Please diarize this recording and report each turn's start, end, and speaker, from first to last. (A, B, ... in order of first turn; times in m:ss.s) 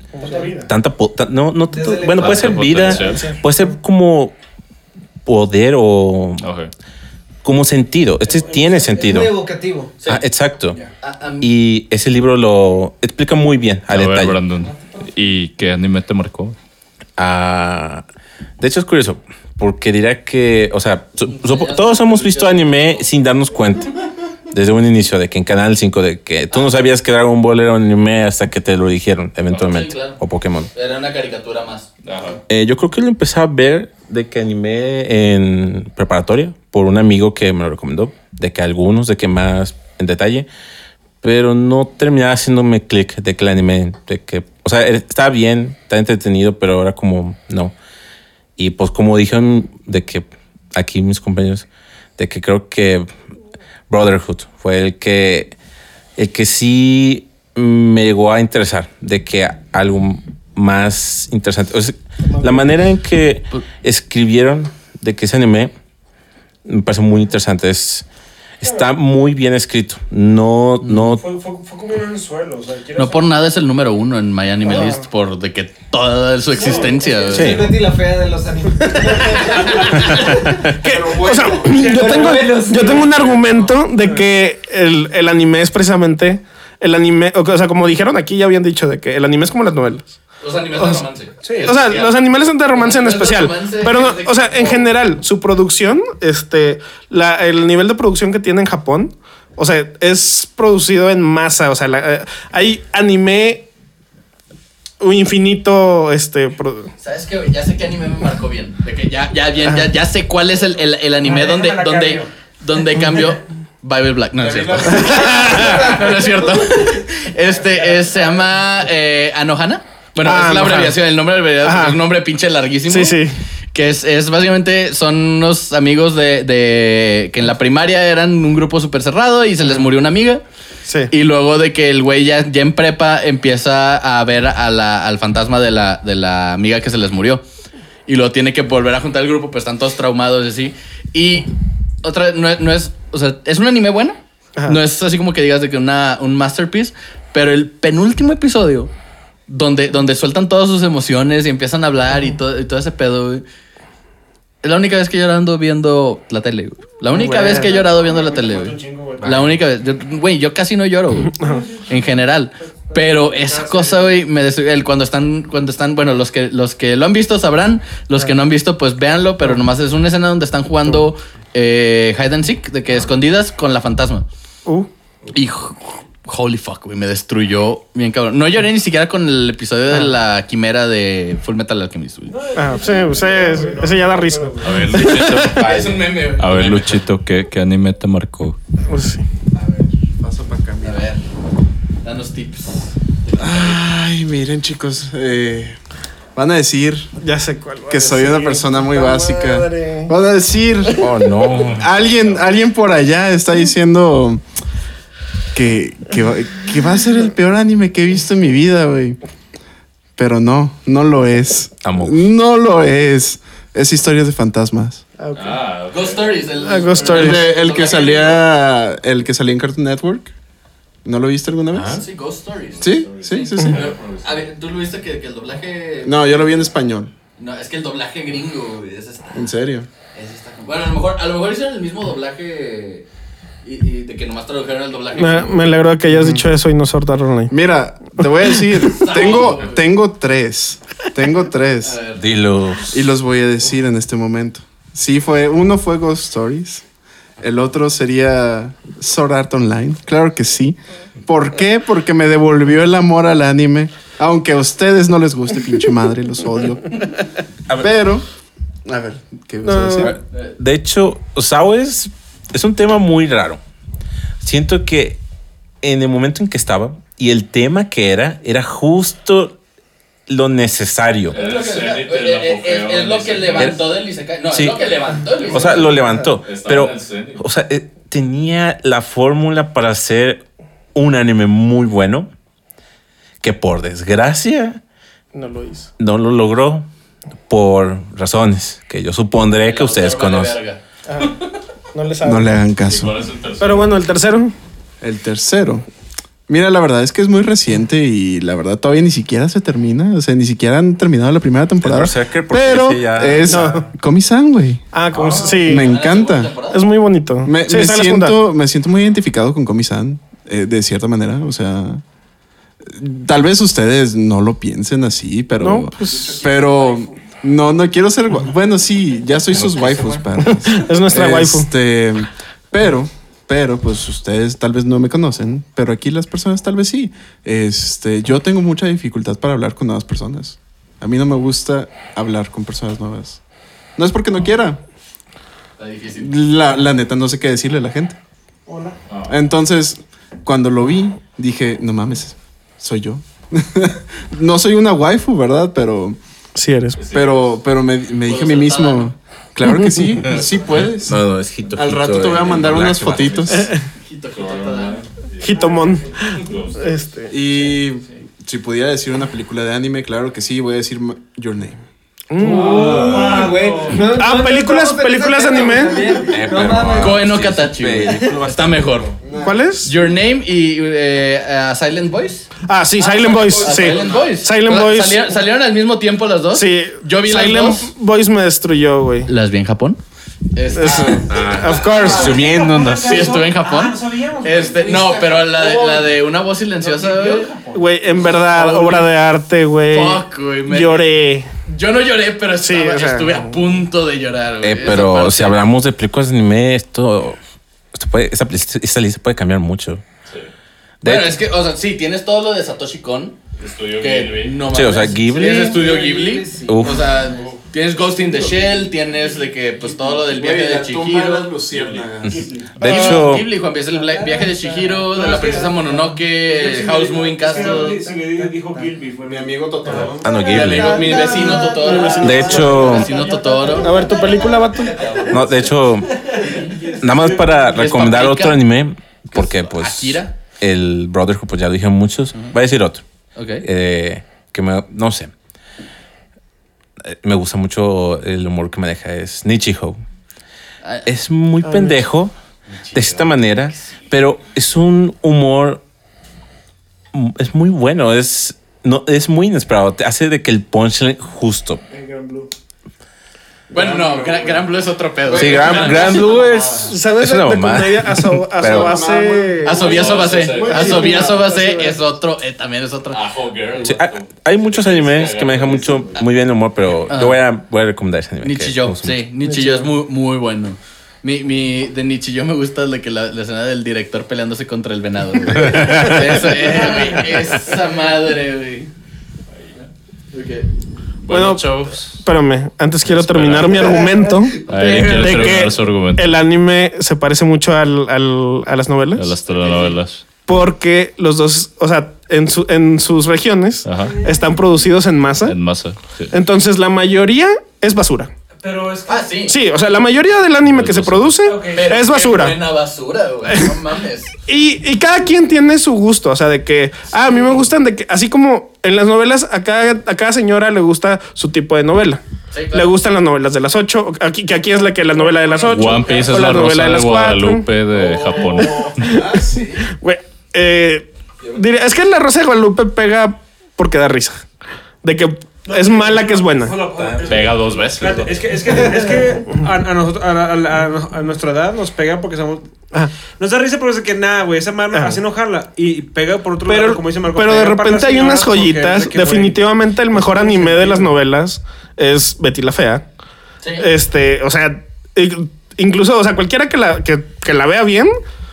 0:00.1-0:00.6 A
0:00.3-0:00.7 B
0:00.7-0:04.3 C
0:01.7-0:03.0 D
0:02.2-0:03.2 E
0:03.0-0:03.4 A
0:05.2-0:06.4 C
0:06.4-0:06.7 E
0:07.4-0:09.3 C
0:08.3-0:08.9 B
0:08.8-0:09.9 D
0:10.0-0:10.8 C
0:10.8-0:11.5 F
0:11.4-0:14.4 C
0:13.9-0:16.6 E
0:17.2-0:18.0 C
0:18.6-0:23.9 C
0:21.3-0:23.1 F
0:24.5-0:30.7 C
0:29.5-0:30.2 F
0:30.7-0:31.9 F
0:32.0-0:32.4 E
0:32.5-0:40.5 C
0:41.2-0:47.7 C
0:48.6-0:51.6 C
0:52.2-0:53.1 C
0:53.9-0:55.5 C
0:56.2-1:05.7 C
1:06.6-1:08.0 C
1:08.6-1:11.2 C
1:08.6-1:08.9 B
1:11.0-1:13.3 B
1:12.9-1:17.7 F
1:14.6-1:15.0 A
1:16.5-1:17.2 B
1:17.1-1:20.6 D
1:17.3-1:17.7 C
1:19.1-1:30.1 A
1:20.8-1:21.8 G
1:21.6-1:22.6 B
1:21.8-1:23.2 D
1:24.0-1:24.2 B
1:30.4-1:34.9 F
1:30.7-1:31.0 A
1:31.4-1:31.8 B
1:31.6-1:43.7 A
1:45.0-1:46.9 A
1:47.0-2:03.2 F
1:51.2-1:52.3 B
1:54.4-1:56.5 G
1:54.9-1:55.9 A
1:57.4-1:58.1 B
2:00.2-2:01.0 A
2:01.6-2:02.0 A
2:02.9-2:03.4 A
2:03.7-2:10.4 F
2:11.1-2:17.4 F
2:18.1-2:21.5 F
2:22.0-2:28.9 F
2:29.5-2:33.4 F
2:34.6-2:41.4 F
2:37.1-2:37.8 A
2:37.4-2:39.6 B
2:41.4-2:42.1 B
2:41.9-2:54.3 F
2:42.6-2:44.2 B
2:55.3-3:02.4 F
3:02.3-3:04.9 B
3:02.6-3:05.6 A
3:04.6-3:08.6 E
3:05.5-3:07.0 F
3:08.9-3:09.2 A
3:09.5-3:11.1 G
3:10.8-3:11.2 F
3:12.0-3:13.8 F
3:13.4-3:15.8 G
3:16.4-3:17.1 G
3:17.2-3:20.1 A
3:17.9-3:24.4 G
3:21.0-3:21.9 C
3:21.6-3:22.4 E
3:25.5-3:29.2 G
3:30.2-3:35.0 G
3:31.8-3:32.3 C
3:35.2-3:35.6 A
3:35.3-3:36.4 E
3:35.9-3:38.4 F
3:36.6-3:37.5 A
3:37.1-3:40.3 G
3:41.0-3:42.0 G
3:41.7-3:42.0 C
3:42.0-3:46.5 F
3:42.8-3:43.8 G
3:42.8-3:44.4 E
3:46.0-3:47.1 G
3:47.4-3:49.5 F
3:49.3-3:49.9 G
3:50.1-3:53.0 F
3:53.6-3:55.7 F
3:55.2-3:57.5 A
3:56.1-3:56.4 G
3:57.5-4:02.0 G
3:58.9-3:59.8 F
4:01.8-4:02.2 F
4:02.1-4:03.0 C
4:02.9-4:06.8 G
4:07.4-4:16.9 G
4:17.8-4:18.2 G
4:18.8-4:20.1 G
4:19.6-4:20.1 A
4:20.0-4:23.6 C
4:24.4-4:25.2 C
4:25.8-4:29.5 C
4:30.3-4:31.4 C
4:31.3-4:33.8 E
4:31.3-4:36.0 F
4:34.5-4:34.8 C
4:35.4-4:40.4 C
4:36.2-4:37.4 E
4:40.9-4:42.3 C
4:43.4-4:44.8 C
4:45.3-4:45.9 A
4:46.0-4:46.8 C
4:47.5-4:50.6 C
4:49.6-4:50.8 F
4:51.1-4:51.4 A
4:51.9-4:52.6 A
4:52.2-4:53.2 G
4:52.8-4:54.0 E
4:53.6-4:54.5 A
4:55.0-4:55.8 G
4:56.5-5:04.8 G
5:01.8-5:03.6 C
5:03.5-5:03.8 A
5:04.9-5:05.9 A
5:05.3-5:06.9 F
5:05.4-5:06.6 G
5:06.7-5:08.4 A
5:07.4-5:12.0 G
5:12.9-5:33.4 G
5:15.6-5:16.4 A
5:19.6-5:20.2 C
5:20.4-5:21.7 A
5:34.0-5:34.8 G
5:35.8-5:36.4 F
5:36.2-5:38.2 G
5:38.7-5:39.0 B
5:39.1-5:39.3 E
5:39.3-5:46.2 G
5:46.6-5:47.0 A
5:47.0-5:47.6 E
5:47.1-5:51.2 G
5:48.2-5:49.1 F
5:49.6-5:50.1 A
5:50.4-5:53.7 C
5:51.7-5:53.7 G
5:54.0-5:55.0 F
5:54.4-5:55.6 E
5:55.4-5:57.3 A
5:55.5-5:56.1 B
5:56.3-5:57.0 E
5:57.3-6:01.8 G
6:02.3-6:06.1 A
6:02.4-6:07.3 D
6:02.5-6:04.1 B
6:02.5-6:04.0 E
6:06.3-6:09.2 C
6:07.0-6:09.1 F
6:09.2-6:09.9 G
6:09.4-6:09.9 A
6:09.8-6:12.5 F
6:12.7-6:15.3 A
6:13.4-6:17.9 F
6:16.5-6:19.3 A
6:19.2-6:20.0 F
6:20.5-6:21.3 F
6:20.7-6:22.4 A
6:20.8-6:21.3 G
6:21.2-6:23.3 C
6:21.9-6:26.1 B
6:23.0-6:27.5 F
6:26.8-6:27.9 B
6:27.7-6:31.5 A
6:28.3-6:29.1 F
6:29.9-6:31.0 F
6:31.6-6:35.6 F
6:32.6-6:33.5 A
6:34.6-6:37.4 C
6:37.9-6:40.0 C
6:41.0-6:41.4 C
6:41.0-6:43.4 F
6:43.6-6:44.6 E
6:44.0-6:51.6 F
6:44.7-6:45.9 C
6:45.6-6:47.2 D
6:46.6-6:47.1 C
6:48.0-6:50.2 B
6:50.2-6:52.4 G
6:51.7-6:52.1 E
6:52.2-6:53.5 C
6:52.2-6:53.3 B
6:52.8-6:58.0 F
6:54.0-7:07.9 B
6:54.2-6:54.5 D
6:58.0-6:58.5 D
6:59.2-7:00.5 G
7:00.2-7:01.2 C
7:00.4-7:04.0 F
7:00.8-7:02.2 D
7:01.0-7:02.9 A
7:02.2-7:03.1 C
7:03.8-7:05.1 A
7:05.3-7:06.1 C
7:07.0-7:13.0 C
7:07.7-7:08.6 F
7:09.3-7:10.4 F
7:13.3-7:13.6 F
7:13.6-7:15.3 C
7:17.1-7:20.0 C
7:20.8-7:21.1 F
7:21.0-7:22.3 C
7:21.6-7:22.0 A
7:22.7-7:23.9 F
7:22.9-7:25.8 C
7:27.1-7:31.8 C
7:31.9-7:32.5 B
7:33.7-7:36.3 F
7:33.8-7:34.4 G
7:33.8-7:34.4 B
7:35.3-7:36.9 G
7:35.3-7:39.0 C
7:36.9-7:39.9 A
7:38.6-7:41.3 G
7:39.6-7:43.2 F
7:39.8-7:41.2 E
7:40.6-7:42.0 A
7:43.1-7:46.3 E
7:43.8-7:49.3 C
7:47.1-7:47.4 F
7:48.4-7:58.9 F
7:49.4-7:49.8 A
7:55.7-7:56.1 C
7:56.0-7:56.7 A
8:00.3-8:00.7 F
8:01.2-8:02.2 E
8:01.3-8:09.3 A
8:03.0-8:04.0 E
8:04.7-8:06.4 E
8:09.2-8:10.2 E
8:09.5-8:10.0 F
8:10.4-8:15.6 A
8:13.8-8:14.1 E
8:14.0-8:14.5 B
8:15.4-8:16.3 E
8:16.3-8:18.3 A
8:18.6-8:19.3 B
8:19.1-8:19.5 F
8:19.5-8:22.6 A
8:20.7-8:21.4 E
8:21.4-8:22.0 B
8:21.7-8:24.3 F
8:23.5-8:23.8 A
8:24.5-8:32.2 A
8:32.5-8:32.9 F
8:32.7-8:37.7 A
8:35.2-8:36.2 B
8:35.7-8:39.1 E
8:38.4-8:38.9 B
8:38.6-8:44.4 A
8:39.0-8:39.8 G
8:45.0-8:46.8 A
8:45.6-8:52.7 B
8:47.2-8:48.5 E
8:48.7-8:49.0 A
8:53.3-9:01.1 B
8:54.9-8:55.2 A
8:56.6-9:03.0 A
9:03.6-9:03.9 F
9:03.8-9:08.1 A